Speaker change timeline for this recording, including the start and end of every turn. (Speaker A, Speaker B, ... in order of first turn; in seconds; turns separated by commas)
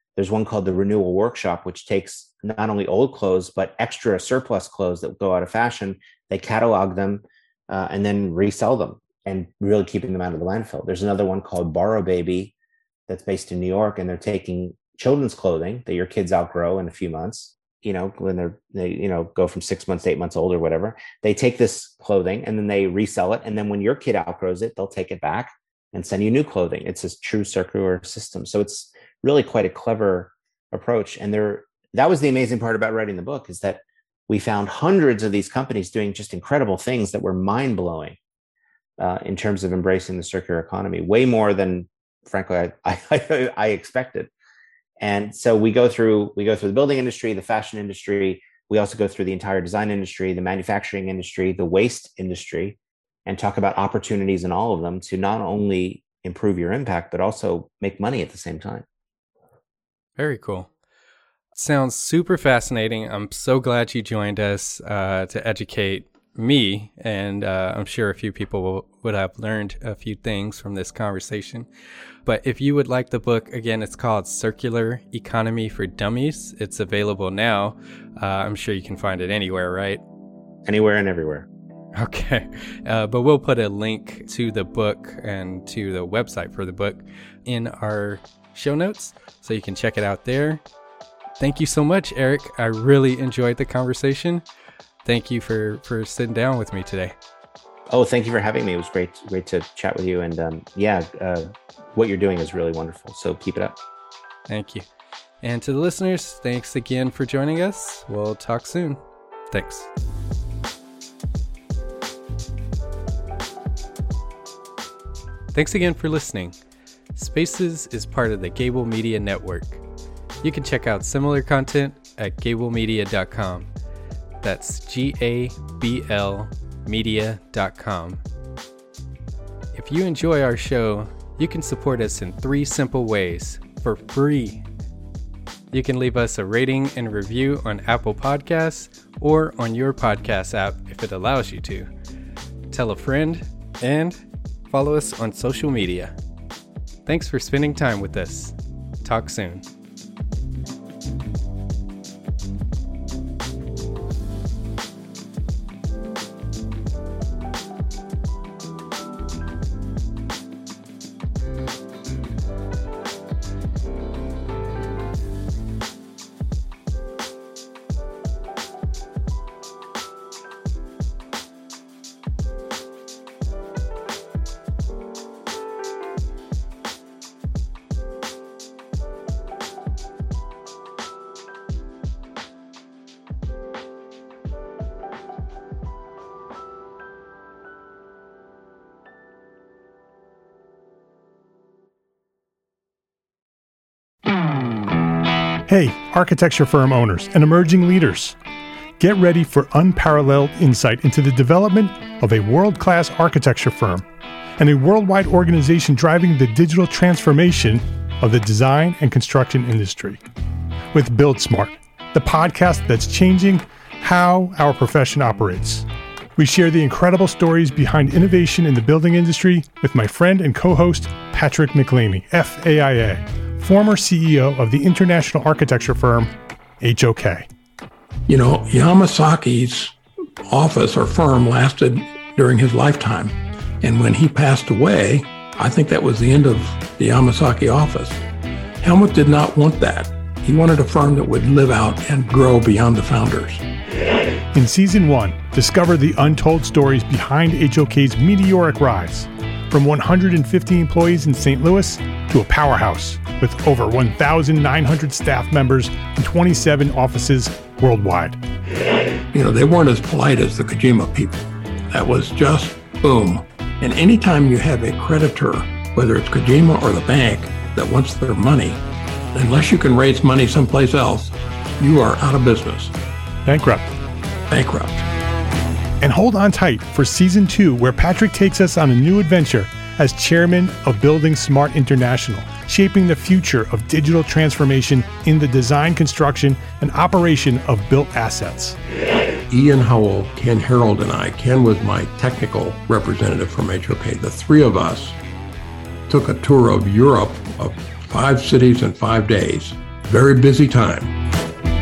Speaker A: 0.2-12.5, Speaker A: 13.1-38.2, Speaker A: 39.0-44.3, Speaker A: 45.0-58.8, Speaker B: 60.2-60.7, Speaker B: 61.5-71.7, Speaker B: 72.2-80.0, Speaker A: 80.6-81.5, Speaker B: 81.9-90.6, Speaker B: 91.4-94.4, Speaker B: 95.0-97.1, Speaker A: 97.9-103.8, Speaker B: 104.5-104.9, Speaker B: 105.4-109.9, Speaker B: 115.5-116.5, Speaker B: 117.1-119.8, Speaker B: 120.4-123.7, Speaker B: 124.4-128.2, Speaker B: 129.7-134.7, Speaker B: 135.7-141.9, Speaker B: 142.7-146.2, Speaker B: 147.0-149.7, Speaker C: 195.7-198.3, Speaker C: 199.0-204.0, Speaker C: 204.6-210.2, Speaker C: 210.9-215.8, Speaker C: 216.4-227.4, Speaker D: 228.3-229.9, Speaker D: 230.5-238.2, Speaker D: 238.8-243.6, Speaker C: 244.5-258.4, Speaker D: 259.3-268.8, Speaker D: 269.3-272.9, Speaker C: 273.4-273.9, Speaker D: 274.5-275.0, Speaker C: 276.0-288.8, Speaker D: 289.5-295.1, Speaker D: 296.1-301.2